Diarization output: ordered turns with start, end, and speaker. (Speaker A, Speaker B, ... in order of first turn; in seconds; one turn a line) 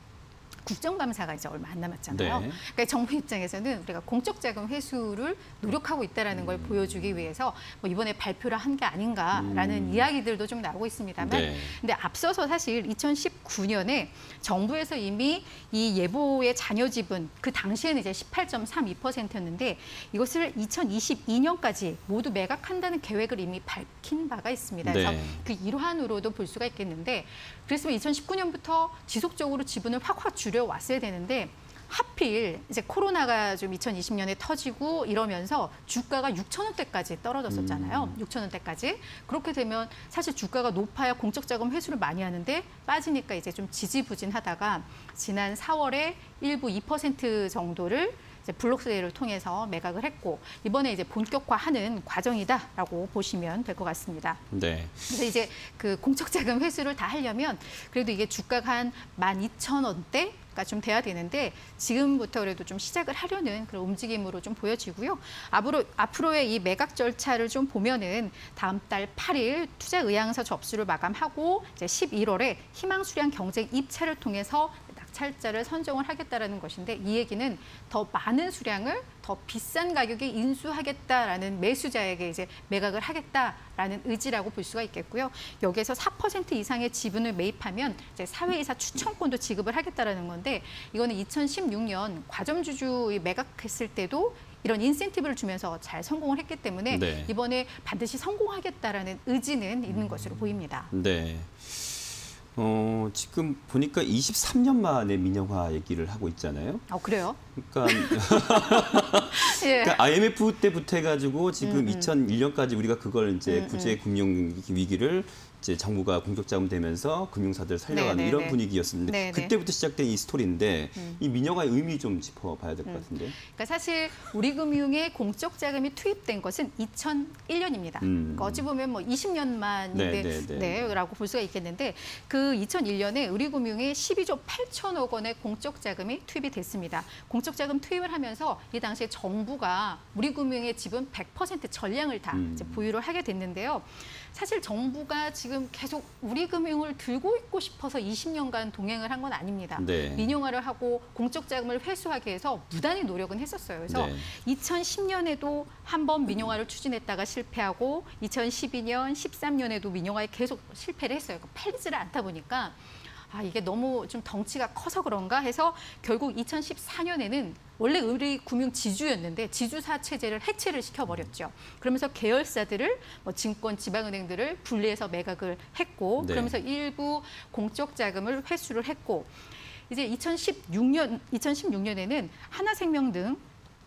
Speaker A: 0.6-54.4
Speaker B: 2.1-2.6
Speaker B: 6.3-7.3
Speaker B: 9.3-10.1
Speaker B: 11.2-11.8
Speaker B: 24.8-25.4
Speaker B: 37.5-38.2
Speaker B: 54.5-55.3
Speaker A: 55.1-100.9
Speaker B: 96.9-97.3
Speaker B: 99.9-106.8
Speaker A: 106.9-110.0
Speaker B: 107.5-123.4
Speaker A: 111.6-112.1
Speaker A: 113.5-114.0
Speaker A: 117.9-119.5
Speaker A: 120.9-121.2
Speaker A: 122.8-179.3
Speaker B: 128.0-128.7
Speaker B: 129.9-131.0
Speaker B: 142.3-142.9
Speaker B: 149.8-150.3
Speaker B: 153.9-154.3
Speaker B: 176.2-176.6
Speaker A: 179.9-183.4